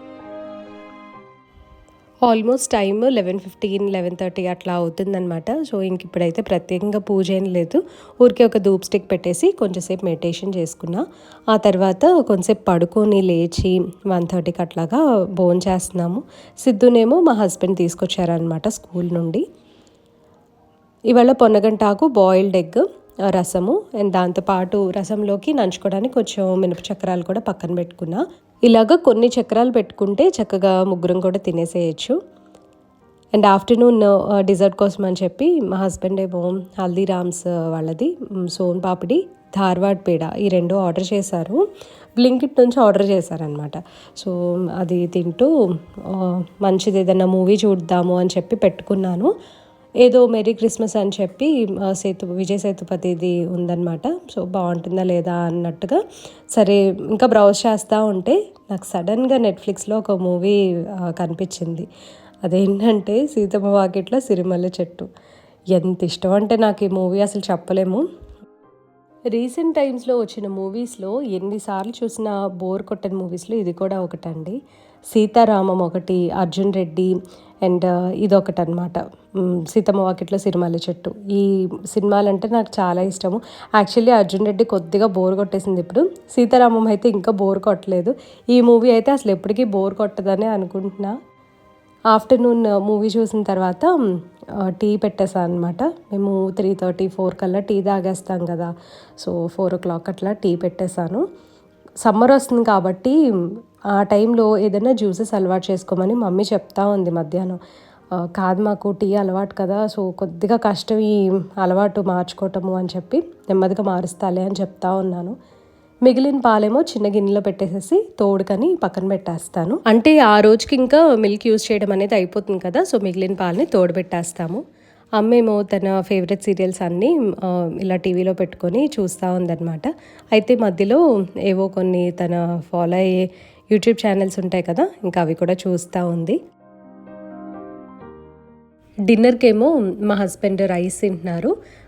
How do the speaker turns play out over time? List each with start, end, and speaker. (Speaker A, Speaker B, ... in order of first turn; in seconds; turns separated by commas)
Speaker A: 2.2-19.4, Speaker A: 21.1-32.1, Speaker A: 33.3-41.6, Speaker A: 42.2-45.5, Speaker A: 46.0-49.3, Speaker A: 50.0-56.0, Speaker A: 56.5-61.9, Speaker A: 62.4-65.1, Speaker A: 65.7-68.0, Speaker A: 69.3-74.6, Speaker A: 75.1-77.1, Speaker A: 77.6-91.2, Speaker A: 92.1-93.9, Speaker A: 94.6-101.2, Speaker A: 102.0-103.2, Speaker A: 103.9-107.6, Speaker A: 108.2-115.3, Speaker A: 116.0-124.6, Speaker A: 125.2-133.2, Speaker A: 133.7-136.4, Speaker A: 139.1-141.5